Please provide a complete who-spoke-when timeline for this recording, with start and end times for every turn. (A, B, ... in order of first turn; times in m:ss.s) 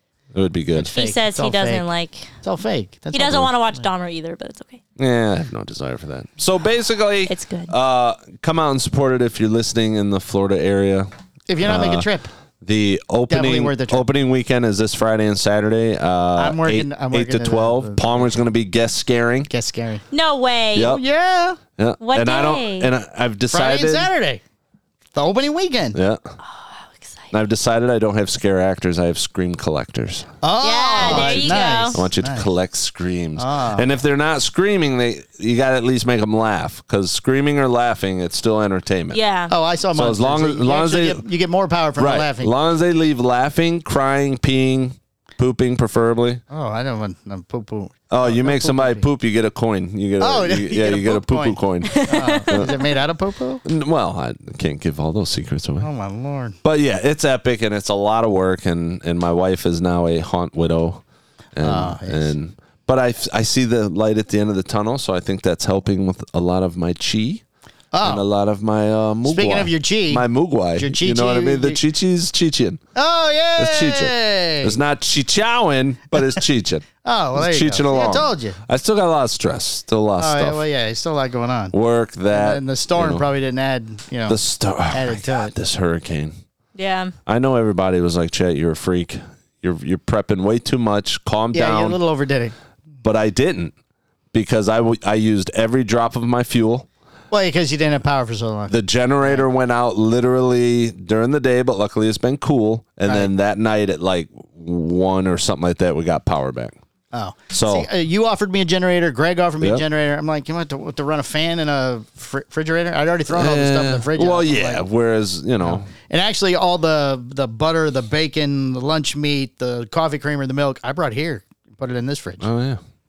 0:00.3-0:00.9 A
0:00.7-0:01.8 B
0:00.9-0:02.3 C
0:02.4-0:03.9 B
0:03.1-0:04.8 C
0:05.0-0:11.1 A
0:07.3-0:07.7 C
0:11.5-0:12.3 B
0:11.6-0:12.1 A
0:12.6-0:19.5 A
0:13.3-0:14.0 B
0:16.4-0:18.0 B
0:19.5-0:20.0 B
0:20.1-0:21.0 C
0:20.7-0:21.0 A
0:20.8-0:21.6 B
0:21.8-0:24.1 A
0:22.0-0:22.9 C
0:23.5-0:24.4 B
0:25.1-0:26.0 B
0:26.0-0:26.3 A
0:26.4-0:27.3 C
0:27.3-0:30.3 A
0:30.4-0:32.5 B
0:30.6-0:32.0 C
0:31.0-0:39.2 A
0:33.4-0:33.9 B
0:39.1-0:39.5 C
0:39.5-0:42.5 B
0:39.9-0:41.2 A
0:42.0-0:46.4 A
0:46.5-0:49.1 B
0:48.1-0:52.7 A
0:50.2-0:53.6 B
0:51.8-0:52.9 C
0:53.6-0:55.9 A
0:55.8-0:56.6 B
0:56.6-1:01.0 A
1:01.6-1:07.4 A
1:01.6-1:02.3 B
1:07.9-1:08.2 B
1:08.0-1:12.8 A
1:09.2-1:11.8 B
1:13.0-1:14.8 B
1:13.6-1:20.6 A
1:17.0-1:18.6 B
1:20.2-1:21.7 B
1:21.7-1:23.2 A
1:22.3-1:24.4 B
1:24.3-1:26.4 A
1:24.9-1:25.5 B
1:26.8-1:27.1 C
1:27.2-1:32.0 A
1:31.5-1:32.5 B
1:33.0-1:33.7 A
1:34.3-1:36.9 A
1:37.3-1:39.4 B
1:38.7-1:46.8 A
1:43.0-1:43.3 B
1:47.1-1:54.8 B
1:47.5-1:47.9 A
1:53.3-1:55.9 A
1:55.6-2:02.5 B
2:02.4-2:02.8 A